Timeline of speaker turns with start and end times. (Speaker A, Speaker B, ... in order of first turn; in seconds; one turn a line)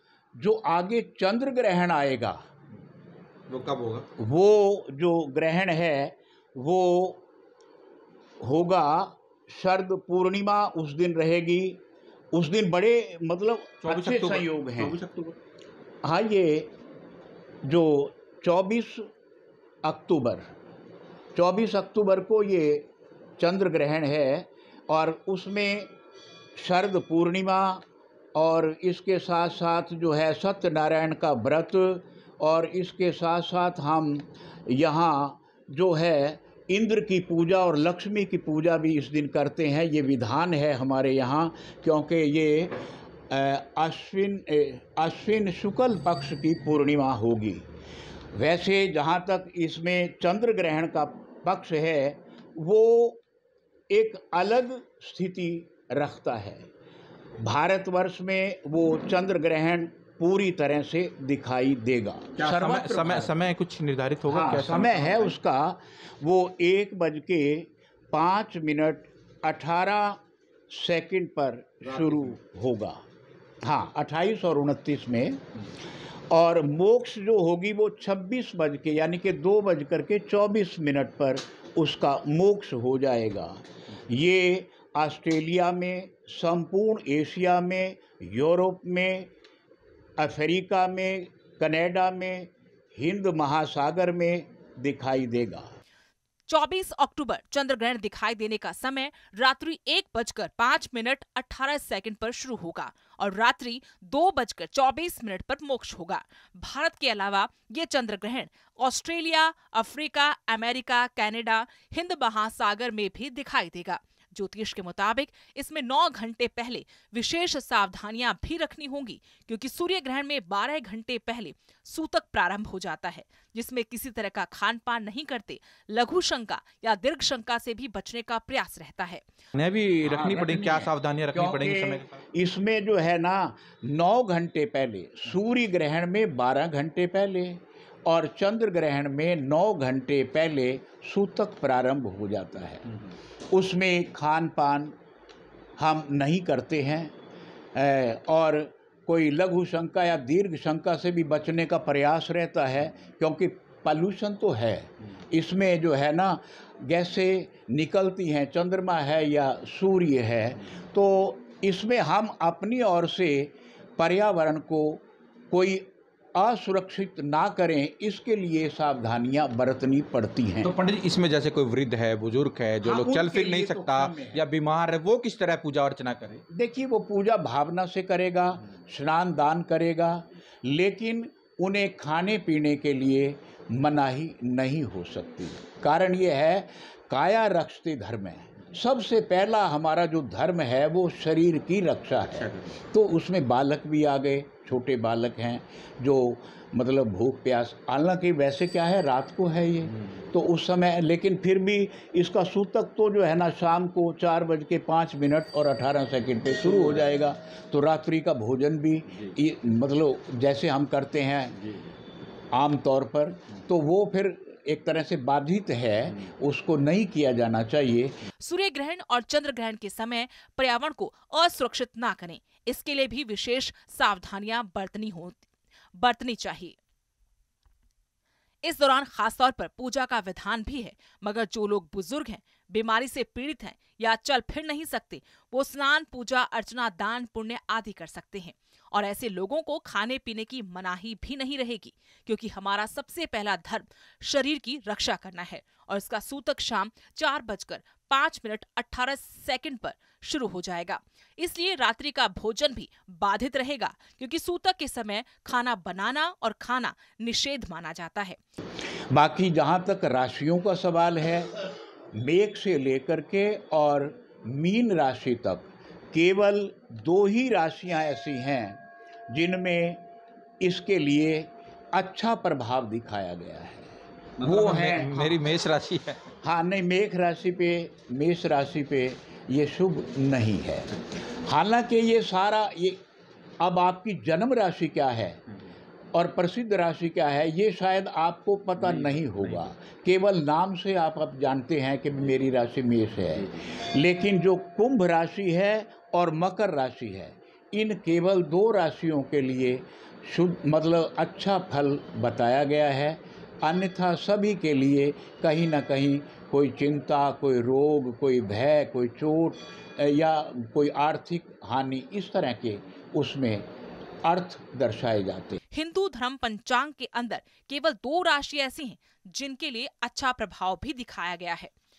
Speaker A: 0.4-2.4
Speaker B: 3.5-4.0
Speaker A: 4.2-7.2
Speaker A: 8.4-11.8
Speaker A: 12.3-15.0
Speaker B: 13.8-15.3
Speaker A: 16.0-16.7
Speaker A: 17.6-19.1
Speaker A: 19.8-20.5
Speaker A: 21.3-22.9
Speaker A: 23.4-25.9
Speaker A: 26.6-27.8
Speaker A: 28.3-47.6
Speaker A: 48.3-53.2
Speaker A: 53.9-56.6
Speaker A: 57.4-63.3
Speaker B: 62.4-65.3
Speaker A: 64.3-73.0
Speaker A: 73.6-75.4
Speaker A: 76.3-89.3
Speaker A: 90.2-95.7
Speaker C: 96.5-129.2
Speaker B: 129.5-132.2
Speaker A: 130.0-142.9
Speaker A: 143.5-144.9
Speaker A: 145.8-147.1
Speaker A: 147.7-170.7
Speaker B: 170.6-176.4
Speaker A: 172.8-174.4
Speaker A: 176.5-211.7
Speaker A: 212.5-218.2
Speaker C: 218.4-225.4
Speaker C: 225.9-226.8
Speaker C: 228.6-258.4
Speaker A: 259.1-261.5
Speaker A: 262.1-270.0
Speaker A: 270.6-275.4
Speaker B: 274.4-276.2
Speaker A: 276.4-283.0
Speaker A: 283.6-285.4
Speaker A: 286.1-313.6
Speaker A: 314.2-315.6
Speaker C: 315.7-321.7